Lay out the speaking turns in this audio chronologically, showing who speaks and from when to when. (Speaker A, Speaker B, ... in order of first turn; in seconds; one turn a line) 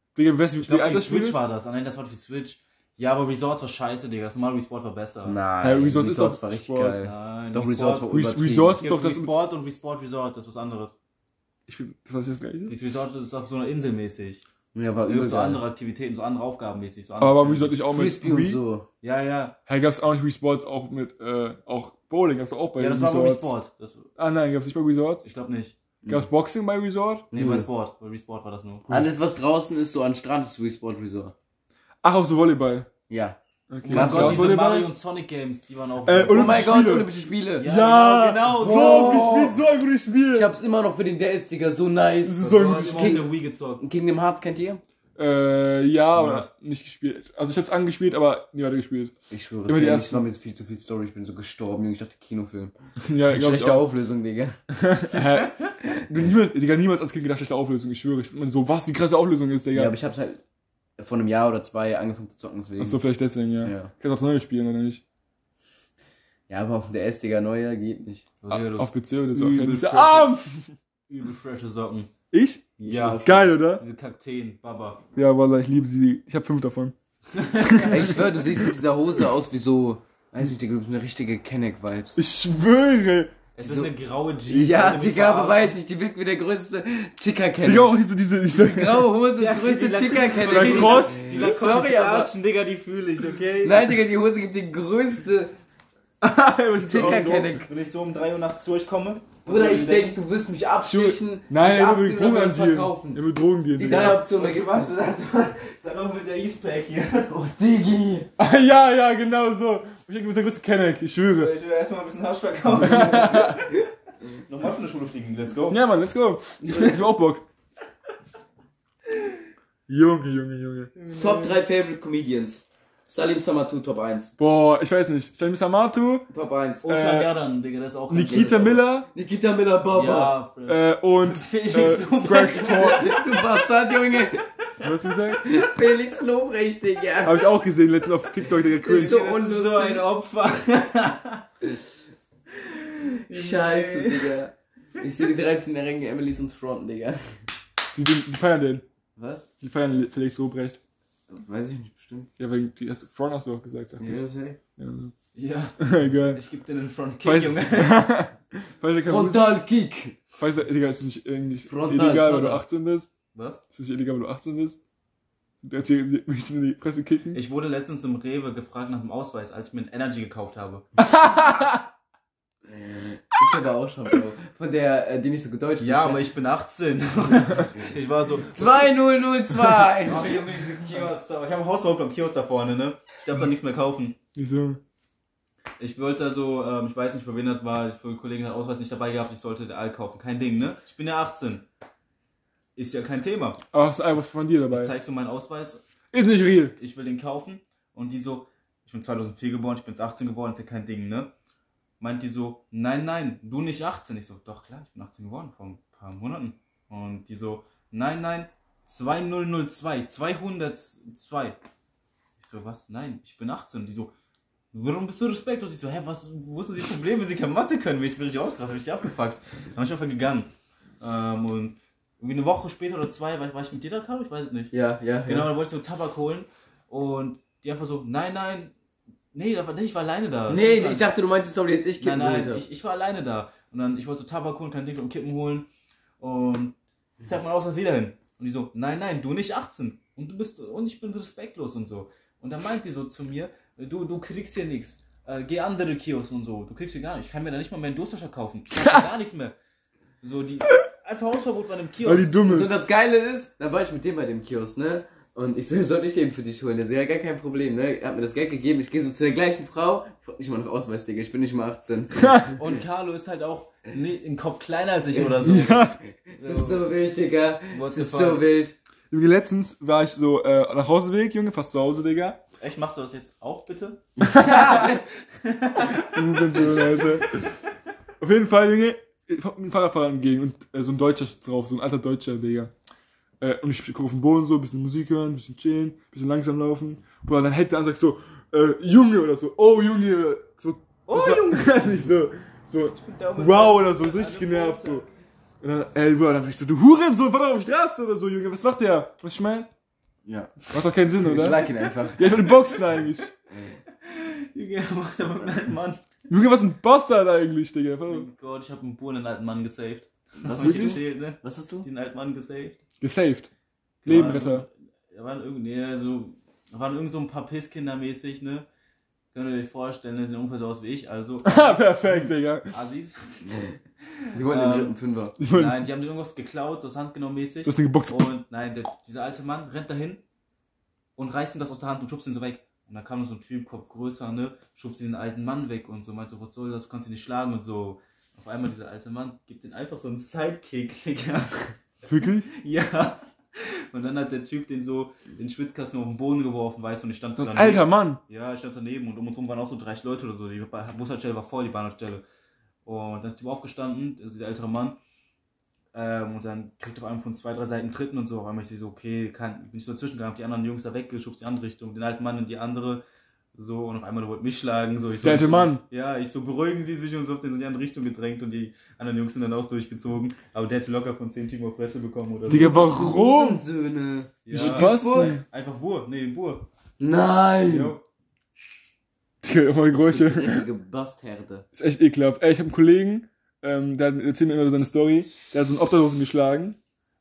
Speaker A: 0.1-1.4
Speaker B: 0.6-5.4
Speaker C: 5.2-8.8
Speaker A: 5.6-7.0
Speaker B: 7.0-10.9
Speaker A: 8.1-9.3
Speaker A: 11.7-12.8
Speaker B: 12.7-14.4
Speaker C: 14.7-15.6
Speaker B: 15.1-17.8
Speaker A: 17.2-18.6
Speaker C: 17.9-18.9
Speaker B: 19.0-19.5
Speaker A: 19.7-23.5
Speaker B: 22.8-24.1
Speaker A: 24.2-25.2
Speaker B: 25.2-25.8
Speaker A: 26.1-27.3
Speaker B: 27.3-28.9
Speaker C: 27.3-27.7
Speaker C: 28.9-31.3
Speaker A: 32.0-32.9
Speaker C: 33.1-33.4
Speaker A: 33.7-34.9
Speaker B: 33.8-36.8
Speaker C: 33.9-34.5
Speaker A: 36.0-37.1
Speaker C: 36.3-37.7
Speaker B: 37.6-39.5
Speaker A: 37.6-40.5
Speaker C: 38.5-39.6
Speaker C: 40.3-44.8
Speaker A: 42.2-43.2
Speaker B: 42.4-43.8
Speaker A: 45.2-49.1
Speaker B: 46.1-46.5
Speaker C: 49.3-52.7
Speaker A: 49.7-50.2
Speaker A: 53.1-53.8
Speaker C: 53.3-54.6
Speaker A: 54.7-55.5
Speaker B: 55.1-55.5
Speaker A: 56.1-59.9
Speaker C: 59.7-60.4
Speaker C: 61.0-63.0
Speaker A: 62.8-65.0
Speaker C: 63.6-63.9
Speaker C: 66.5-68.3
Speaker B: 68.4-70.5
Speaker A: 68.5-70.5
Speaker B: 71.1-72.1
Speaker A: 72.3-73.8
Speaker B: 72.8-75.0
Speaker C: 72.9-73.3
Speaker A: 75.2-76.9
Speaker B: 77.3-78.2
Speaker A: 77.6-78.7
Speaker C: 77.8-82.2
Speaker A: 82.2-83.3
Speaker B: 83.5-85.8
Speaker C: 83.6-83.9
Speaker C: 84.5-87.9
Speaker A: 87.6-89.1
Speaker C: 88.5-92.3
Speaker B: 89.4-93.9
Speaker A: 90.5-91.5
Speaker C: 93.6-95.5
Speaker A: 96.2-97.5
Speaker C: 96.8-97.7
Speaker B: 96.9-100.2
Speaker C: 99.5-103.2
Speaker A: 100.8-104.2
Speaker C: 103.8-105.2
Speaker B: 103.9-107.3
Speaker C: 107.3-108.3
Speaker A: 108.4-111.5
Speaker B: 111.3-113.9
Speaker A: 112.8-113.6
Speaker B: 114.5-115.8
Speaker A: 115.7-117.4
Speaker B: 116.7-117.0
Speaker A: 119.9-120.9
Speaker B: 121.0-121.6
Speaker C: 121.2-124.3
Speaker A: 124.4-126.2
Speaker C: 126.3-126.9
Speaker B: 126.8-128.8
Speaker A: 126.8-127.3
Speaker A: 128.1-129.1
Speaker C: 128.2-130.3
Speaker B: 129.9-133.4
Speaker A: 130.7-133.1
Speaker C: 132.7-134.4
Speaker A: 134.8-135.4
Speaker C: 135.3-137.5
Speaker A: 137.2-139.2
Speaker C: 138.8-140.1
Speaker B: 138.8-141.4
Speaker B: 142.5-144.4
Speaker C: 143.3-147.4
Speaker A: 147.9-148.8
Speaker C: 149.2-149.5
Speaker A: 149.6-150.8
Speaker C: 151.3-152.3
Speaker A: 152.4-154.2
Speaker C: 154.0-154.6
Speaker A: 154.8-155.1
Speaker B: 155.3-158.1
Speaker A: 155.8-156.4
Speaker A: 157.2-159.6
Speaker C: 159.1-160.2
Speaker A: 160.4-163.1
Speaker C: 161.7-162.6
Speaker B: 163.3-163.6
Speaker A: 163.7-164.8
Speaker A: 165.6-167.4
Speaker B: 167.3-170.8
Speaker A: 171.0-171.8
Speaker C: 172.6-176.3
Speaker B: 175.8-178.9
Speaker C: 178.5-180.7
Speaker B: 180.0-184.2
Speaker A: 184.3-184.8
Speaker B: 185.8-191.6
Speaker B: 192.8-193.6
Speaker A: 193.7-194.9
Speaker B: 194.7-195.8
Speaker A: 196.1-196.7
Speaker B: 196.8-201.3
Speaker B: 202.0-211.6
Speaker B: 212.4-214.1
Speaker B: 214.7-224.7
Speaker C: 224.7-225.5
Speaker B: 225.2-228.7
Speaker B: 229.3-231.1
Speaker C: 230.5-232.6
Speaker B: 232.0-235.7
Speaker B: 236.2-249.5
Speaker B: 250.2-252.4
Speaker A: 252.0-252.8
Speaker C: 252.4-262.5
Speaker B: 262.5-266.9
Speaker C: 265.1-268.7
Speaker A: 265.5-265.9
Speaker B: 267.7-268.4
Speaker A: 269.1-272.4
Speaker B: 272.6-277.2
Speaker C: 274.2-275.0
Speaker A: 276.0-277.4
Speaker A: 278.2-282.7
Speaker A: 283.4-295.0
Speaker B: 291.1-291.9
Speaker B: 292.9-295.1
Speaker A: 295.6-299.7
Speaker C: 300.2-300.5
Speaker A: 300.7-303.3
Speaker C: 301.2-302.4
Speaker B: 304.0-306.0
Speaker A: 306.3-308.3
Speaker B: 308.1-312.8
Speaker C: 310.4-311.9
Speaker A: 310.5-311.0
Speaker A: 313.0-313.5
Speaker B: 314.0-318.6
Speaker A: 314.1-314.6
Speaker B: 319.3-323.7
Speaker A: 321.4-322.7
Speaker C: 324.3-325.4
Speaker B: 324.5-330.2
Speaker A: 325.4-325.8
Speaker A: 327.6-328.3
Speaker B: 331.1-352.2
Speaker A: 342.1-342.5
Speaker A: 347.4-348.2
Speaker B: 352.8-355.0
Speaker B: 355.9-363.0
Speaker B: 363.5-373.0
Speaker A: 365.2-365.8
Speaker A: 372.5-373.6
Speaker C: 372.5-375.4
Speaker B: 374.4-376.7
Speaker A: 374.5-375.4
Speaker C: 377.0-377.9
Speaker B: 377.6-378.0
Speaker A: 379.4-380.7
Speaker C: 379.9-381.6
Speaker A: 381.7-386.8